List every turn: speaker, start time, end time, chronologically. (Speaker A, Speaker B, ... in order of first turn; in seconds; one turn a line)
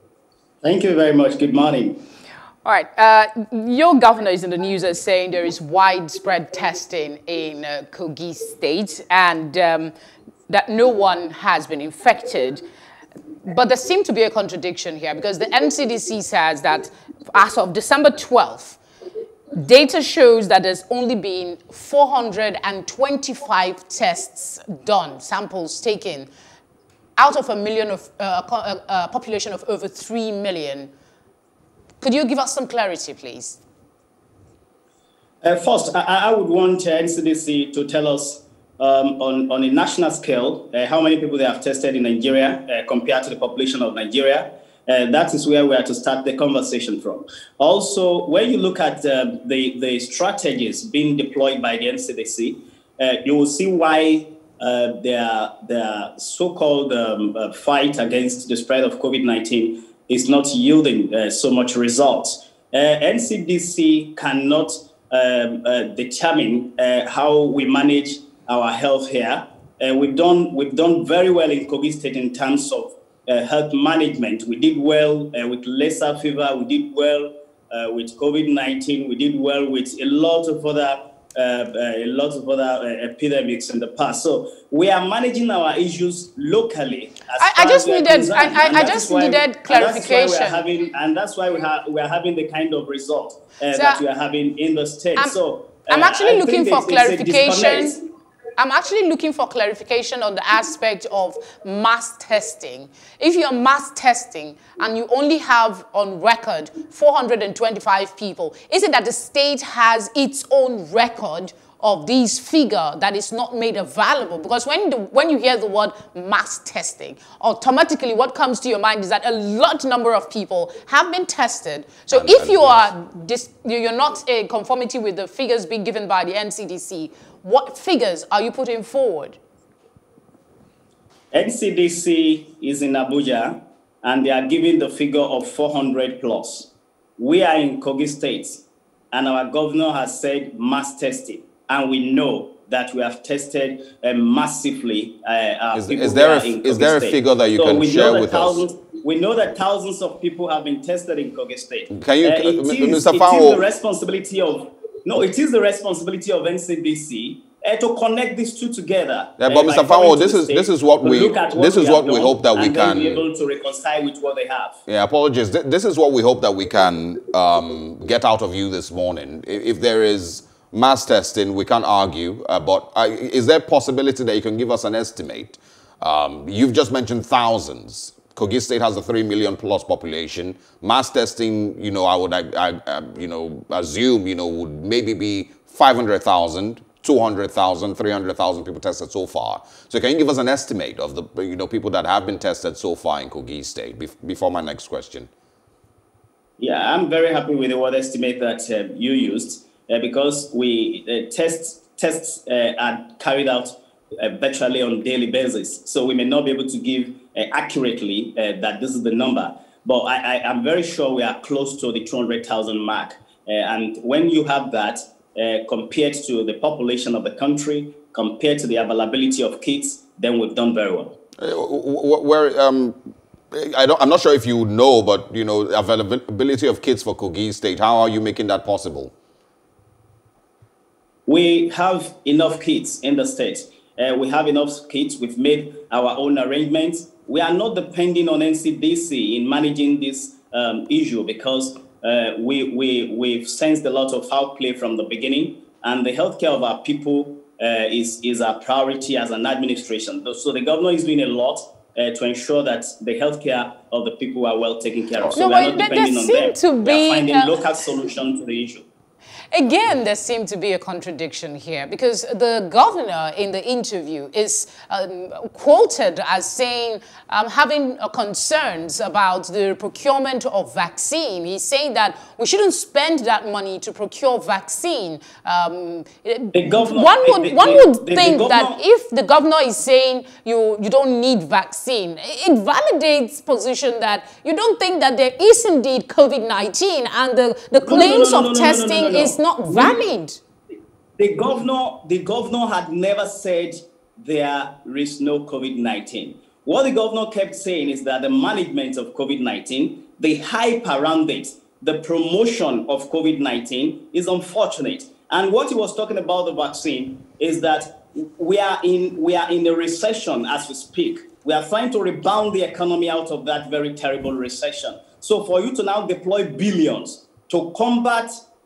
Speaker A: 0.6-2.0
Speaker B: 2.6-9.9
Speaker B: 10.5-12.6
Speaker B: 13.4-18.8
Speaker B: 19.5-26.3
Speaker B: 27.2-30.9
Speaker B: 32.0-33.6
Speaker A: 35.4-98.0
Speaker B: 87.4-90.6
Speaker B: 93.7-94.0
Speaker B: 95.9-98.0
Speaker B: 98.6-129.4
Speaker C: 122.1-122.9
Speaker A: 131.3-164.7
Speaker C: 145.7-148.6
Speaker C: 151.9-153.6
Speaker C: 159.4-163.2
Speaker C: 164.9-195.3
Speaker A: 196.6-221.2
Speaker C: 221.4-223.0
Speaker C: 223.5-229.1
Speaker A: 231.3-258.8
Speaker B: 255.3-257.6
Speaker B: 259.5-290.4
Speaker A: 276.5-278.8
Speaker A: 287.8-290.1
Speaker A: 291.2-318.3